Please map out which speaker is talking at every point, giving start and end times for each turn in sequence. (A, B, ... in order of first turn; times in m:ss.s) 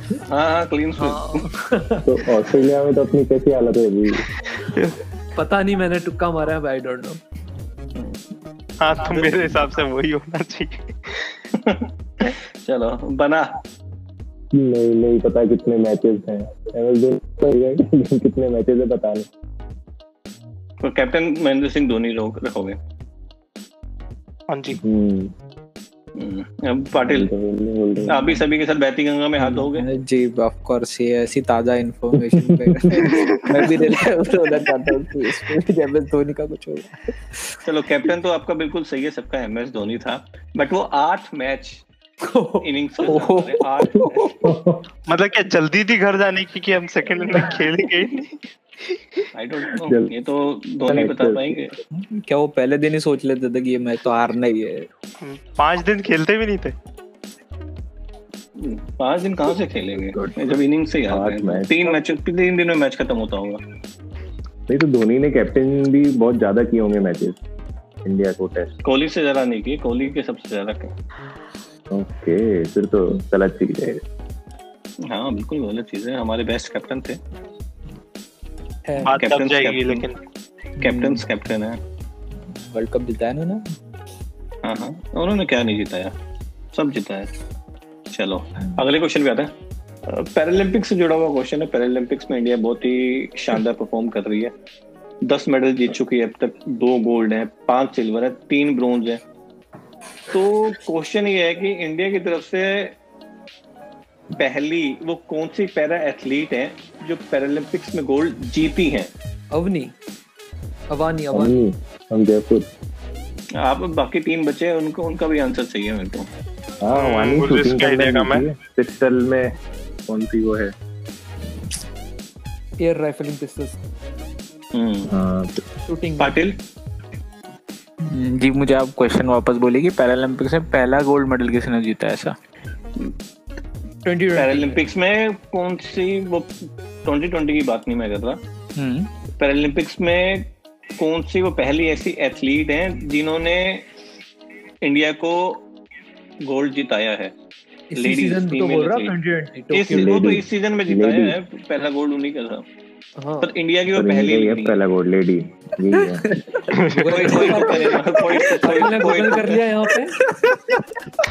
0:00.3-0:01.4 A
0:01.0-0:02.1 B
0:02.0-0:04.3 C
0:04.6-0:05.0 D
0:05.3-0:07.2 B
0:08.8-0:11.4 D
0:11.6-0:13.6 A
0:14.5-0:19.3 C
0:20.8-0:22.8 A
0:24.5-0:24.8 D
0:24.8-0:25.3 C
0:26.2-0:27.3 A
0:27.0-0:28.4 C
0:28.0-0:29.8 A
0:29.4-0:37.6 E
0:37.6-0:41.8 A
0:42.2-0:42.6 B
0:42.6-0:44.5 A
0:43.0-0:44.1 E
0:44.4-0:44.8 C
0:45.1-0:49.3 D
0:49.3-0:51.7 A
0:49.7-0:50.1 C
0:50.8-0:51.5 C
0:51.8-0:54.9 E
0:55.2-0:56.7 D
0:58.6-1:03.6 A
1:00.2-1:00.5 C
1:01.1-1:01.9 C
1:04.7-1:07.4 C
1:08.0-1:08.7 C
1:08.8-1:10.9 A
1:11.9-1:14.0 C
1:15.0-1:17.2 A
1:18.8-1:19.2 B
1:19.0-1:20.2 D
1:19.2-1:20.0 A
1:20.8-1:21.8 A
1:20.8-1:21.2 E
1:22.5-1:23.6 E
1:24.6-1:26.1 A
1:26.7-1:27.3 A
1:28.1-1:29.5 A
1:30.1-1:34.5 A
1:35.2-1:39.2 A
1:40.3-1:42.9 A
1:44.3-1:49.1 A
1:49.5-1:49.9 B
1:50.9-1:51.6 B
1:51.3-1:52.7 C
1:53.6-1:56.3 A
1:56.8-1:59.5 C
1:56.9-1:58.5 D
2:00.1-2:00.7 C
2:02.8-2:03.8 B
2:04.7-2:05.1 A
2:05.1-2:05.6 C
2:05.8-2:06.3 B
2:06.2-2:06.6 A
2:08.0-2:12.4 E
2:14.0-2:14.8 B
2:14.3-2:18.4 A
2:18.8-2:19.1 E
2:19.4-2:20.5 A
2:21.0-2:23.9 A
2:24.8-2:25.6 A
2:26.4-2:27.3 A
2:27.9-2:30.2 B
2:28.0-2:29.1 A
2:29.7-2:32.7 A
2:29.9-2:31.4 C
2:33.2-2:33.5 B
2:33.4-2:34.8 A
2:33.9-2:36.3 C
2:36.5-2:40.2 B
2:36.7-2:37.1 D
2:37.1-2:39.6 A
2:37.4-2:38.6 E
2:40.2-2:41.0 E